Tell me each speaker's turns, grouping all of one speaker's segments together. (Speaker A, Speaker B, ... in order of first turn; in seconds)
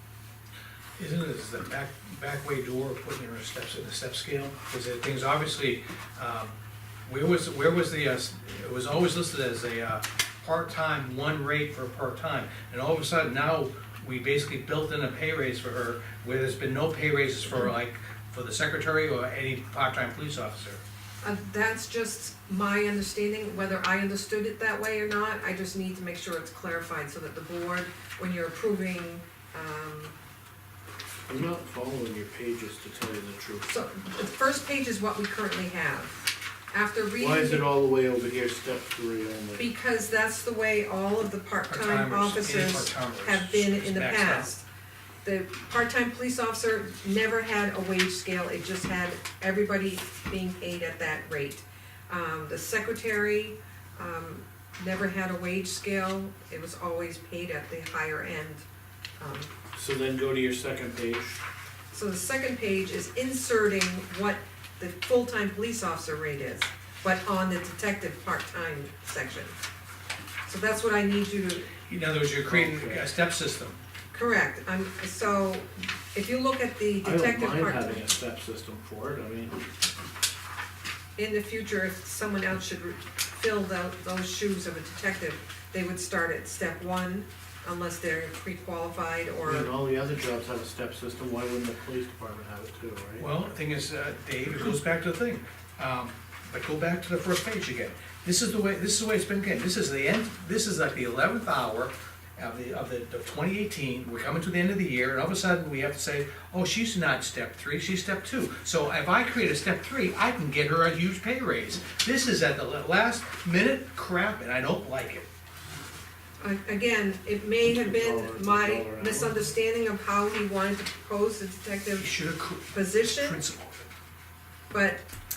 Speaker A: 1.0-6.5, 7.0-20.8, 41.7-44.5, 71.9-73.8, 93.2-115.3, 122.0-123.9
Speaker B: 21.2-30.1, 33.6-37.6, 39.6-44.6, 45.2-58.6, 59.2-59.5, 61.9-69.5, 70.5-71.7, 74.1-78.1, 81.2-89.7, 116.4-122.1, 122.7-123.4, 124.7-125.0
Speaker C: 31.3-33.7, 37.2-39.7, 59.7-61.4, 72.5-73.1, 77.0-79.6, 89.4-93.3, 117.7-119.5